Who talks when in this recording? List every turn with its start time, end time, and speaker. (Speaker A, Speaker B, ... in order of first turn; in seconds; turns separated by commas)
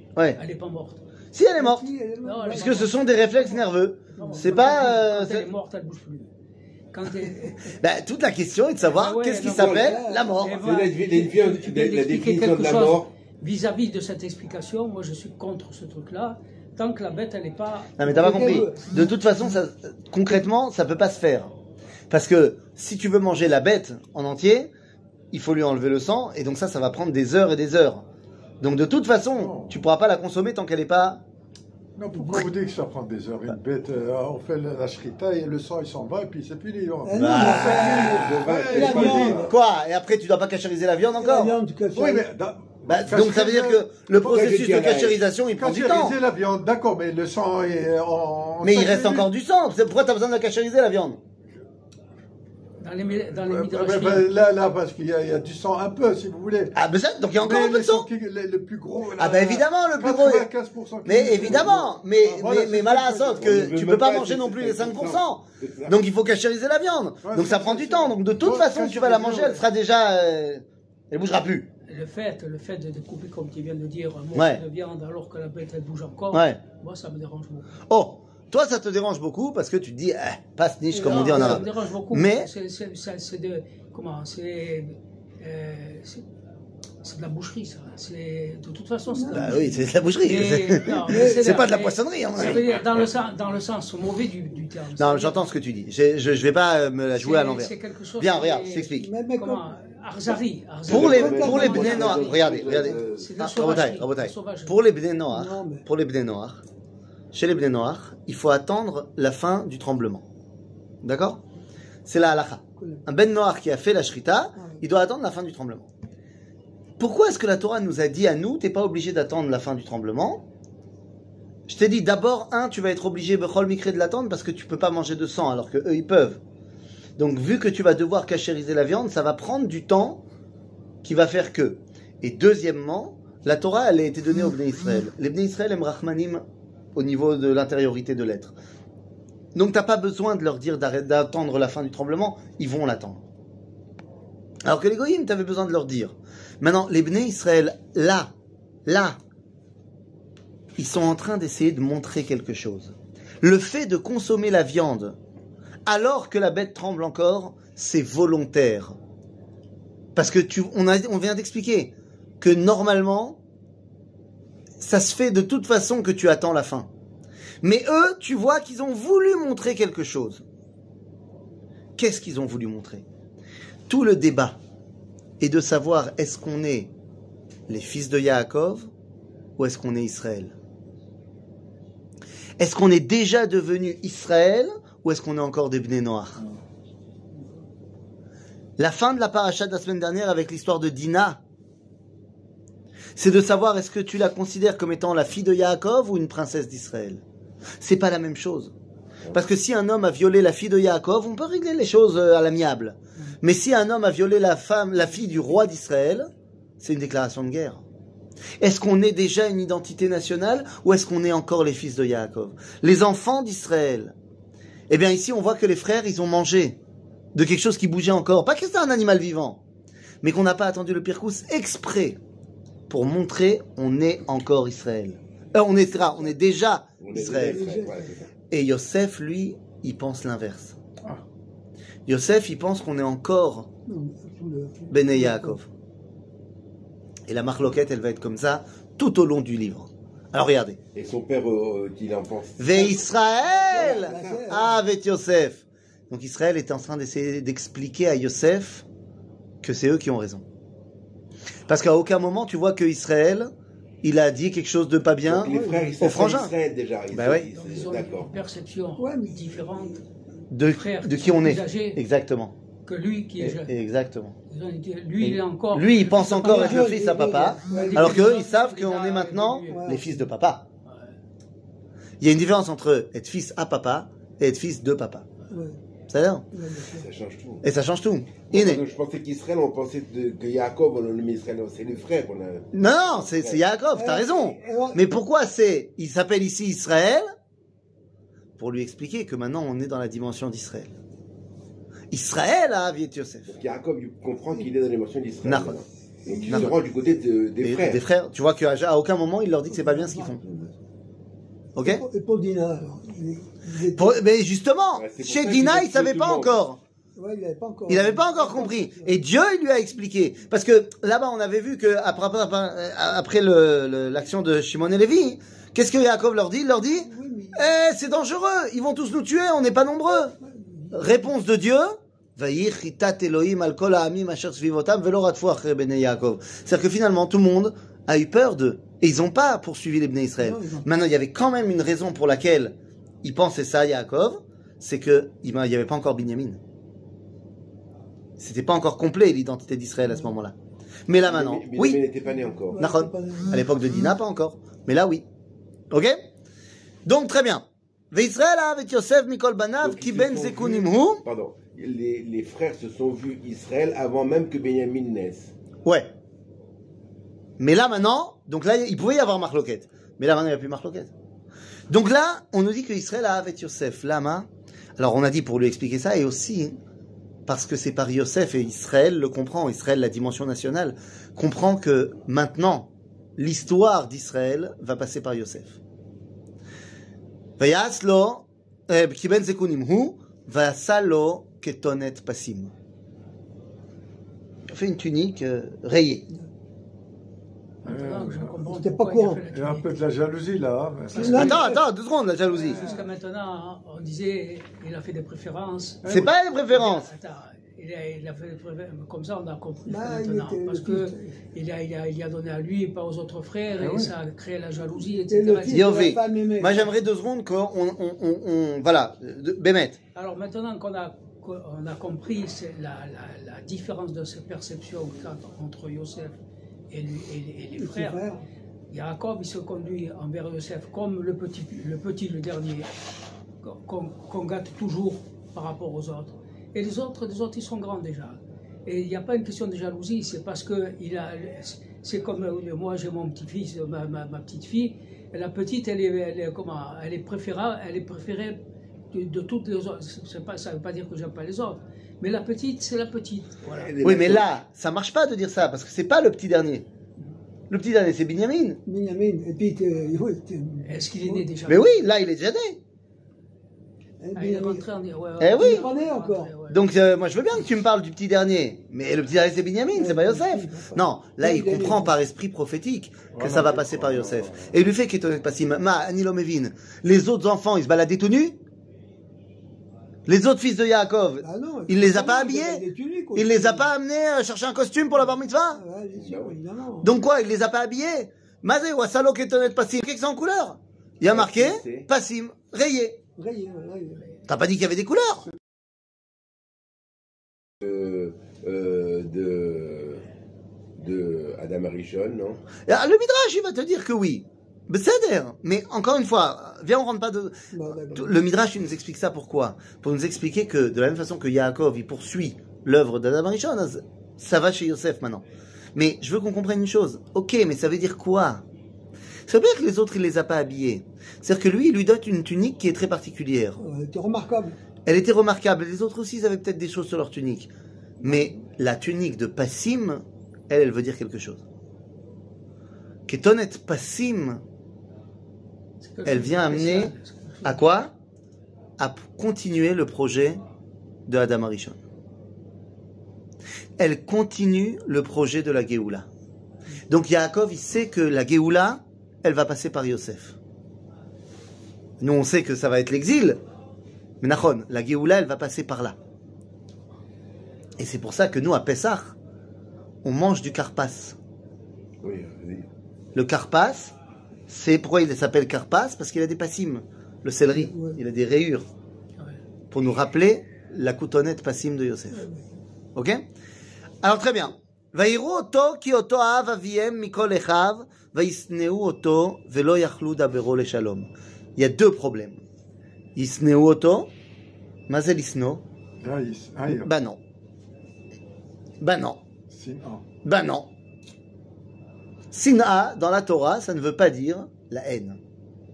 Speaker A: 0.4-1.1, Speaker B: 1.3-1.9, Speaker C: 1.6-2.9, Speaker A: 2.2-3.6, Speaker B: 2.5-5.5, Speaker C: 4.2-4.8, Speaker A: 4.2-6.3, Speaker A: 6.9-7.6, Speaker B: 7.7-10.7, Speaker A: 8.9-18.7, Speaker D: 9.4-9.9, Speaker C: 9.6-10.4, Speaker D: 10.6-13.1, Speaker B: 18.0-21.5, Speaker C: 18.0-19.1, Speaker B: 22.1-24.7, Speaker B: 25.3-28.1, Speaker B: 28.6-31.2, Speaker E: 29.3-29.8, Speaker E: 32.0-39.5, Speaker C: 37.0-39.5, Speaker B: 37.2-41.5, Speaker D: 38.1-39.5, Speaker C: 41.2-42.3, Speaker E: 41.9-44.1, Speaker B: 42.9-46.2, Speaker D: 44.3-45.3, Speaker E: 45.5-49.3, Speaker B: 48.6-51.2, Speaker A: 52.8-54.3, Speaker E: 53.3-56.8, Speaker B: 56.8-58.1, Speaker E: 57.4-63.5, Speaker B: 59.2-60.5, Speaker B: 61.0-71.7, Speaker D: 63.3-66.0, Speaker E: 67.2-69.6, Speaker A: 71.9-77.7, Speaker B: 74.3-74.6, Speaker B: 76.3-76.6, Speaker B: 77.9-82.5, Speaker C: 80.9-81.7, Speaker A: 81.0-86.3, Speaker A: 87.0-95.4, Speaker C: 89.1-89.6, Speaker B: 89.3-92.7, Speaker C: 91.1-91.6, Speaker B: 95.0-99.1, Speaker A: 97.2-104.8, Speaker C: 99.0-99.7, Speaker D: 100.9-103.4, Speaker B: 100.9-106.6, Speaker C: 101.0-102.2, Speaker C: 105.3-105.8, Speaker B: 107.3-110.2, Speaker B: 111.0-111.4, Speaker B: 112.1-115.9, Speaker C: 112.8-113.0, Speaker C: 114.6-114.8, Speaker B: 117.0-120.4, Speaker B: 121.7-126.4, Speaker B: 127.2-130.2, Speaker B: 131.0-136.4, Speaker B: 136.9-138.5, Speaker B: 139.6-143.2, Speaker B: 144.7-148.3, Speaker B: 148.9-149.2, Speaker B: 150.8-155.2, Speaker B: 155.9-159.0, Speaker B: 160.2-163.4, Speaker B: 164.8-166.9, Speaker B: 167.6-170.4, Speaker B: 172.0-173.0, Speaker B: 173.9-174.6, Speaker B: 175.4-176.9, Speaker B: 177.7-178.9, Speaker B: 179.6-180.5, Speaker B: 182.6-186.4, Speaker B: 188.8-191.4, Speaker B: 193.2-197.2, Speaker B: 197.8-198.7, Speaker B: 199.3-206.3, Speaker B: 206.8-207.8, Speaker B: 208.6-214.1, Speaker B: 214.9-216.8, Speaker B: 217.3-219.6, Speaker B: 220.2-222.2, Speaker B: 222.9-227.7, Speaker D: 227.0-228.2, Speaker C: 227.4-228.3, Speaker B: 228.5-230.8, Speaker B: 232.1-233.7, Speaker C: 233.9-235.6, Speaker B: 234.9-235.7, Speaker B: 237.3-240.8, Speaker D: 240.9-243.0, Speaker B: 242.6-248.8, Speaker C: 243.4-244.8, Speaker D: 243.6-244.6, Speaker B: 249.6-250.4, Speaker B: 251.7-253.5, Speaker B: 254.0-256.5, Speaker D: 255.2-258.4, Speaker C: 255.5-256.0, Speaker B: 257.1-257.5, Speaker A: 257.5-260.0, Speaker C: 259.0-260.1, Speaker B: 260.5-262.5, Speaker A: 260.7-262.0, Speaker A: 262.9-263.7, Speaker B: 263.4-264.4, Speaker A: 264.5-266.9, Speaker B: 265.2-270.7, Speaker C: 266.4-268.4, Speaker A: 267.7-270.0, Speaker C: 269.7-270.1, Speaker A: 270.9-271.1, Speaker B: 272.2-275.3, Speaker C: 275.5-275.8, Speaker B: 276.1-276.4, Speaker C: 276.5-277.1, Speaker D: 276.9-277.6, Speaker B: 277.6-278.8, Speaker D: 278.5-283.6, Speaker B: 282.7-287.3, Speaker C: 283.9-285.0, Speaker B: 288.6-290.9, Speaker B: 292.1-293.5, Speaker D: 293.5-298.0, Speaker B: 295.4-295.8, Speaker C: 296.3-296.7, Speaker B: 296.5-296.7, Speaker B: 297.6-300.4, Speaker C: 299.7-300.8, Speaker B: 301.8-302.0, Speaker C: 301.8-304.2, Speaker B: 304.0-306.8, Speaker D: 304.9-306.6, Speaker C: 307.2-309.2, Speaker B: 307.9-320.4, Speaker C: 317.0-317.7, Speaker C: 320.5-321.3, Speaker B: 320.9-336.6, Speaker C: 330.4-330.9, Speaker B: 338.4-340.5, Speaker B: 341.1-342.0, Speaker D: 341.2-342.8, Speaker C: 342.7-343.7, Speaker B: 342.8-345.2, Speaker B: 345.9-346.2, Speaker B: 347.1-351.2, Speaker D: 349.8-355.5, Speaker B: 355.9-356.1, Speaker B: 357.6-361.1, Speaker B: 361.9-364.5, Speaker B: 365.0-366.8, Speaker B: 367.5-375.8, Speaker B: 377.6-382.7, Speaker B: 384.7-386.3, Speaker E: 387.9-388.7, Speaker A: 387.9-390.0, Speaker C: 388.6-389.5, Speaker E: 389.5-391.5, Speaker A: 391.1-391.8, Speaker C: 391.1-391.8, Speaker B: 391.2-392.8, Speaker A: 392.6-396.1, Speaker E: 396.0-396.3, Speaker B: 396.1-397.1, Speaker A: 396.7-406.0, Speaker C: 399.9-401.4, Speaker E: 403.8-404.1, Speaker C: 405.2-406.9, Speaker B: 405.7-410.0, Speaker A: 410.1-416.4, Speaker A: 416.9-418.2, Speaker C: 417.8-418.4, Speaker A: 418.9-422.9, Speaker A: 423.6-438.6, Speaker A: 439.1-443.9, Speaker D: 443.7-444.6, Speaker B: 444.0-446.9, Speaker B: 447.7-448.8, Speaker C: 448.9-451.5, Speaker A: 450.9-452.0, Speaker B: 451.7-452.8, Speaker C: 454.2-454.9, Speaker A: 454.4-456.8, Speaker B: 455.4-455.9, Speaker C: 455.6-456.5, Speaker B: 456.7-468.6, Speaker C: 459.9-462.1, Speaker E: 463.3-464.7, Speaker B: 470.3-472.8, Speaker C: 471.4-473.9, Speaker B: 473.4-475.8, Speaker C: 475.7-477.1, Speaker D: 476.1-476.6, Speaker B: 477.0-483.2, Speaker D: 481.2-482.1, Speaker C: 483.4-484.3, Speaker B: 484.5-485.5, Speaker D: 487.8-490.2, Speaker D: 491.0-492.6, Speaker B: 492.9-505.4, Speaker C: 497.7-498.4, Speaker B: 505.9-508.6, Speaker B: 509.5-513.8, Speaker C: 513.8-514.8, Speaker B: 515.1-517.7, Speaker B: 518.2-521.6, Speaker B: 523.3-524.6, Speaker A: 526.0-527.8, Speaker B: 526.2-527.1, Speaker B: 527.6-528.1, Speaker B: 529.0-530.6, Speaker B: 531.3-532.0, Speaker B: 534.0-536.3, Speaker B: 537.1-540.6, Speaker B: 542.2-543.6, Speaker B: 544.4-546.2, Speaker B: 548.0-549.4, Speaker B: 550.2-551.4, Speaker D: 552.2-552.9, Speaker B: 553.4-554.1, Speaker B: 554.7-558.9, Speaker C: 557.7-558.2, Speaker B: 559.9-562.5, Speaker C: 562.4-562.6, Speaker B: 563.2-563.4, Speaker B: 564.2-572.6, Speaker B: 573.4-574.3, Speaker B: 575.1-575.8, Speaker E: 576.2-577.1, Speaker B: 576.9-577.4, Speaker B: 579.0-579.4, Speaker E: 579.7-580.2, Speaker B: 580.4-580.9, Speaker B: 582.5-585.4